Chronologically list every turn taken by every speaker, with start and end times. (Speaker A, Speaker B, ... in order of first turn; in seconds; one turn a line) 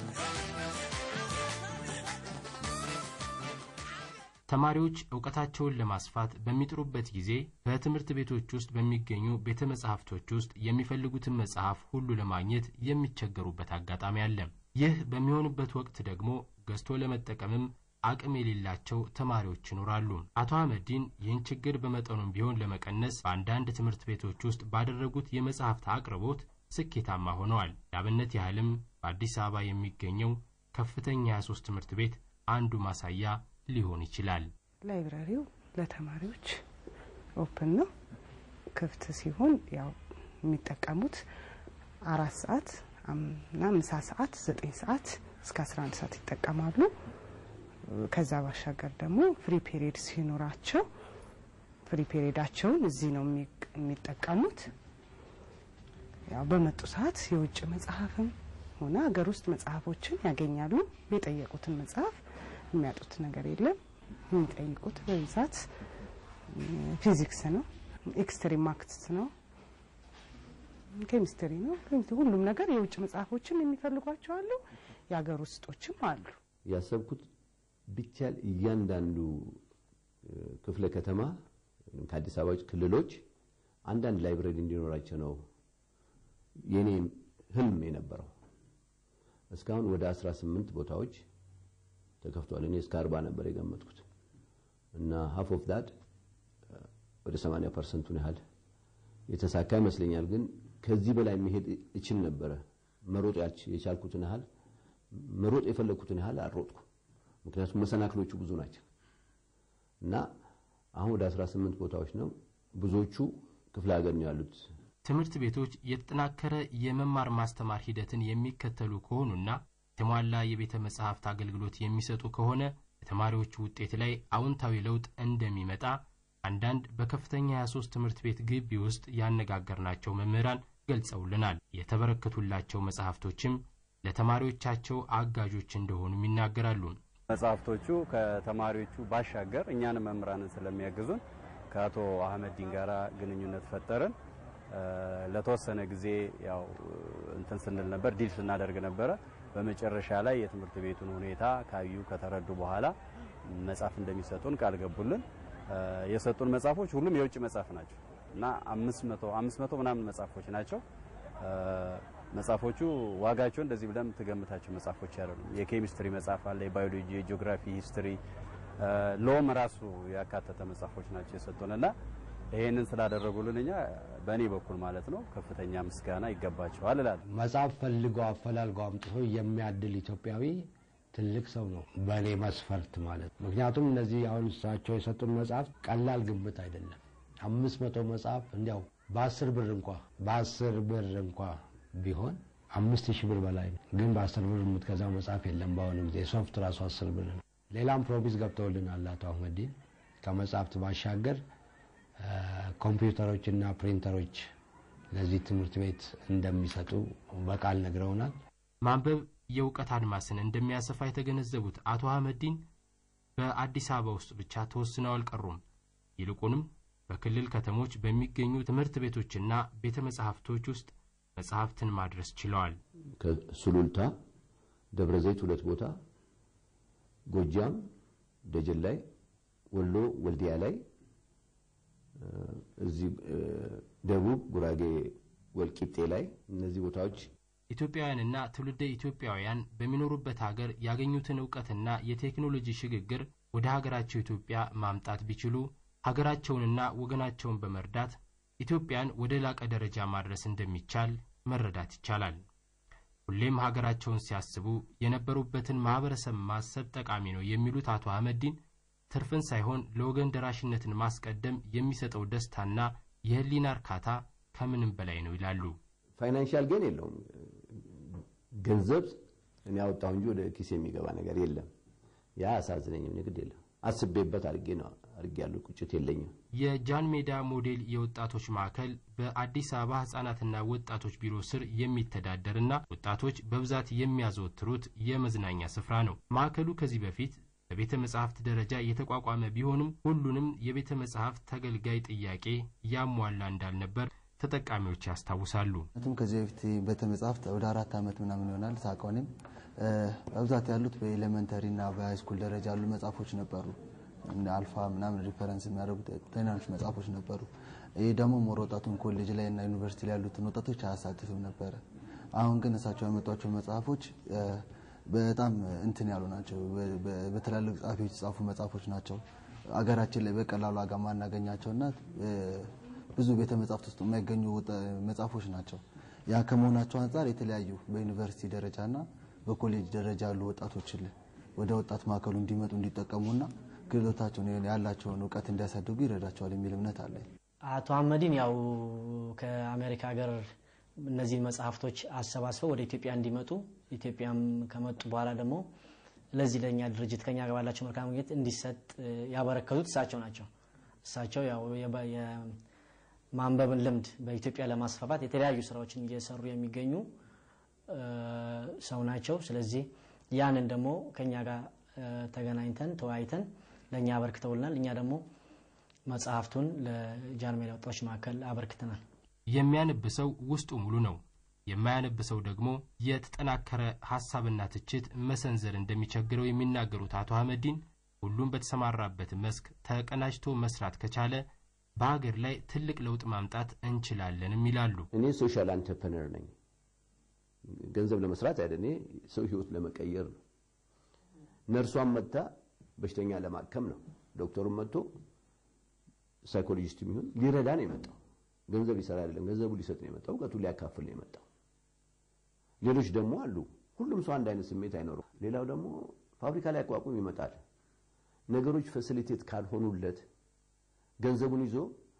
Speaker A: 4.5-34.5
Speaker B: 34.8-36.6
Speaker B: 37.4-37.9
Speaker B: 38.7-41.2
Speaker B: 42.0-46.9
Speaker B: 47.9-50.9
Speaker B: 51.9-54.7
Speaker B: 56.3-62.2
Speaker B: 62.7-63.8
Speaker B: 64.3-65.7
Speaker B: 66.5-69.3
Speaker B: 71.0-76.4
Speaker C: 76.7-77.3
Speaker C: 77.9-79.6
Speaker C: 80.2-81.3
Speaker C: 81.9-83.2
Speaker C: 83.8-85.4
Speaker C: 86.7-88.3
Speaker C: 89.5-91.2
Speaker C: 92.2-94.0
Speaker C: 94.9-95.9
Speaker C: 97.2-98.4
Speaker C: 99.3-104.5
Speaker C: 105.1-106.8
Speaker C: 107.4-108.8
Speaker C: 110.9-114.6
Speaker A: 115.0-137.0
Speaker D: 137.3-144.1
Speaker D: 144.7-152.9
Speaker D: 153.4-160.8
Speaker D: 161.4-168.2
Speaker D: 168.8-171.9
Speaker D: 172.5-177.2
Speaker E: 177.3-201.4
Speaker E: 202.2-204.4
Speaker E: 205.1-208.3
Speaker A: 208.8-212.6
Speaker A: 213.4-215.6
Speaker A: 216.2-222.8
Speaker C: 223.2-224.1
Speaker C: 224.9-225.9
Speaker C: 227.3-227.8
Speaker C: 228.5-229.0
Speaker C: 229.7-230.8
Speaker C: 232.2-237.3
Speaker A: 237.7-252.4
Speaker A: 253.3-258.6
Speaker A: 259.1-265.8
Speaker C: 266.2-269.1
Speaker C: 269.6-271.7
Speaker C: 272.4-276.3
Speaker A: 276.6-295.9
Speaker F: 296.0-299.3
Speaker F: 299.8-303.7
Speaker F: 304.3-307.5
Speaker F: 308.0-311.8
Speaker F: 312.4-319.2
Speaker F: 319.8-337.2
Speaker G: 337.6-340.4
Speaker G: 341.0-345.7
Speaker G: 346.3-350.5
Speaker G: 351.0-352.6
Speaker G: 353.3-357.1
Speaker G: 357.9-365.2
Speaker G: 366.1-369.0
Speaker A: 369.5-381.4
Speaker A: 382.0-385.1
Speaker C: 385.1-386.5
Speaker C: 387.9-390.4
Speaker C: 391.7-392.5
Speaker C: 393.0-395.1
Speaker C: 396.4-398.2
Speaker C: 398.7-401.4
Speaker C: 402.8-407.6
Speaker C: 408.5-410.2
Speaker C: 411.2-411.9